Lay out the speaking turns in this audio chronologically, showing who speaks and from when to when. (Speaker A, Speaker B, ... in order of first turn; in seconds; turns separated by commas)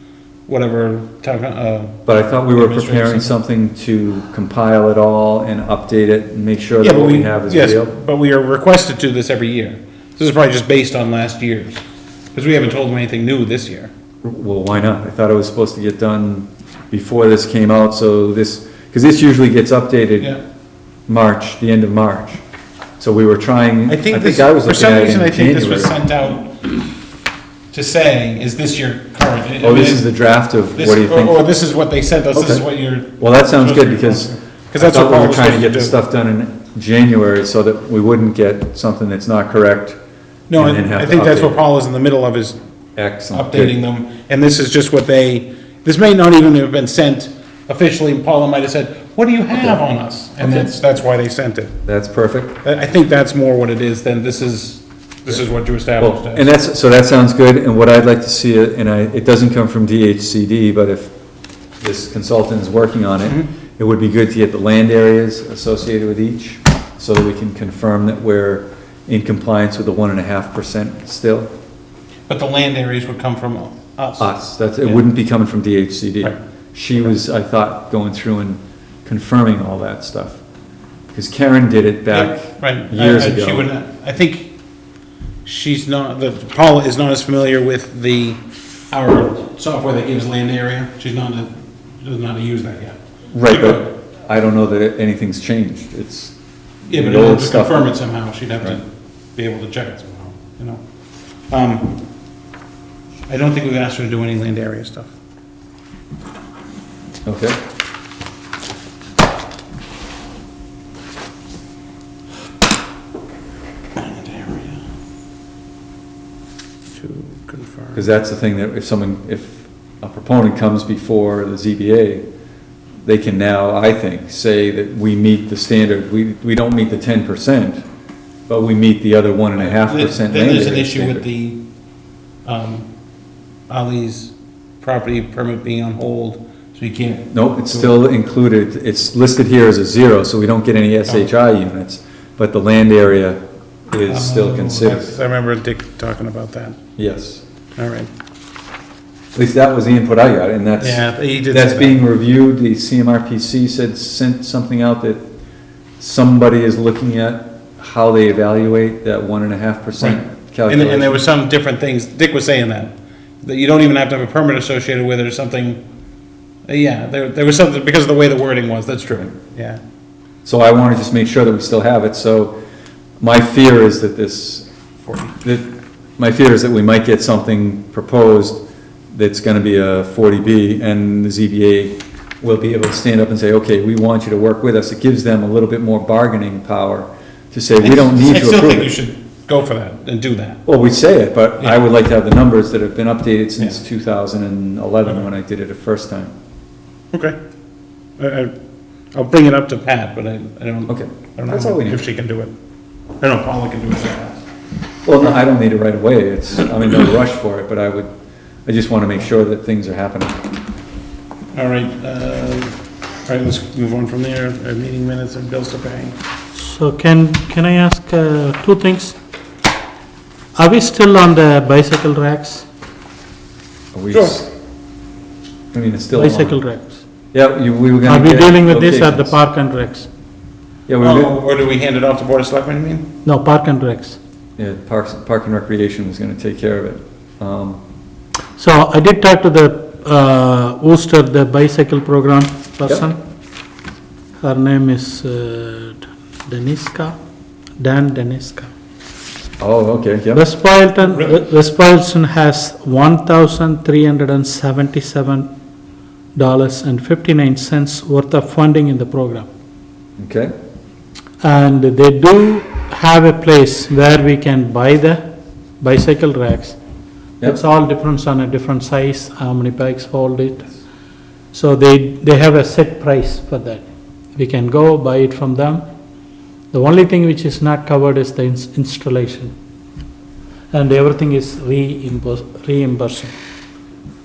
Speaker A: 0.5-3.3, Speaker B: 2.0-7.9, Speaker A: 6.8-11.8, Speaker A: 12.3-13.9, Speaker B: 14.2-20.3, Speaker B: 21.1-22.4, Speaker B: 23.0-25.9, Speaker A: 23.9-26.7, Speaker A: 27.7-30.0, Speaker B: 29.6-31.4, Speaker A: 30.7-36.0, Speaker B: 32.3-32.6, Speaker B: 33.2-40.0, Speaker A: 40.5-42.6, Speaker B: 40.5-41.6, Speaker B: 43.0-43.7, Speaker A: 43.3-51.8, Speaker B: 50.4-50.7, Speaker B: 51.9-52.6, Speaker A: 52.6-56.5, Speaker B: 56.0-61.1, Speaker B: 61.8-71.5, Speaker A: 72.3-75.0, Speaker B: 74.2-80.4, Speaker B: 81.1-83.7, Speaker A: 82.1-84.5, Speaker A: 85.4-93.9, Speaker B: 93.3-96.3, Speaker A: 96.9-100.8, Speaker B: 96.9-97.9, Speaker A: 101.5-102.0, Speaker A: 103.3-105.1, Speaker B: 107.2-107.6, Speaker A: 114.0-114.8, Speaker A: 117.0-118.0, Speaker B: 117.9-122.2, Speaker B: 123.0-127.8, Speaker B: 128.5-131.2, Speaker A: 129.6-131.6, Speaker A: 132.4-132.9, Speaker A: 133.7-138.0, Speaker B: 137.3-145.1, Speaker A: 144.1-146.8, Speaker B: 147.0-147.4, Speaker A: 147.8-148.1, Speaker B: 149.3-155.2, Speaker A: 150.8-152.0, Speaker B: 156.0-161.2, Speaker A: 160.0-165.8, Speaker A: 166.7-169.8, Speaker B: 170.4-172.5, Speaker B: 173.2-174.7, Speaker A: 175.1-175.3, Speaker B: 175.4-188.9, Speaker A: 187.8-190.6, Speaker B: 190.7-196.3, Speaker A: 197.1-197.4, Speaker A: 198.2-198.5, Speaker A: 199.1-202.5, Speaker B: 200.9-202.0, Speaker A: 203.2-204.4, Speaker B: 205.0-208.1, Speaker B: 208.7-210.4, Speaker A: 211.5-216.2, Speaker C: 216.6-219.2, Speaker C: 220.5-222.7, Speaker B: 223.9-224.5, Speaker A: 224.1-224.4, Speaker B: 225.7-226.6, Speaker C: 226.1-227.0, Speaker B: 227.3-229.4, Speaker C: 228.0-230.1, Speaker B: 230.9-231.3, Speaker A: 231.0-233.1, Speaker C: 233.2-234.2, Speaker B: 234.6-237.8, Speaker C: 238.6-243.2, Speaker C: 244.4-247.2, Speaker C: 247.8-248.7, Speaker B: 249.6-250.4, Speaker C: 250.3-255.5, Speaker C: 256.4-259.5, Speaker B: 260.2-260.5, Speaker C: 261.4-265.3, Speaker C: 265.8-266.8, Speaker C: 267.4-270.7, Speaker C: 271.5-273.8, Speaker C: 274.4-275.8, Speaker C: 276.7-279.5, Speaker C: 280.7-283.3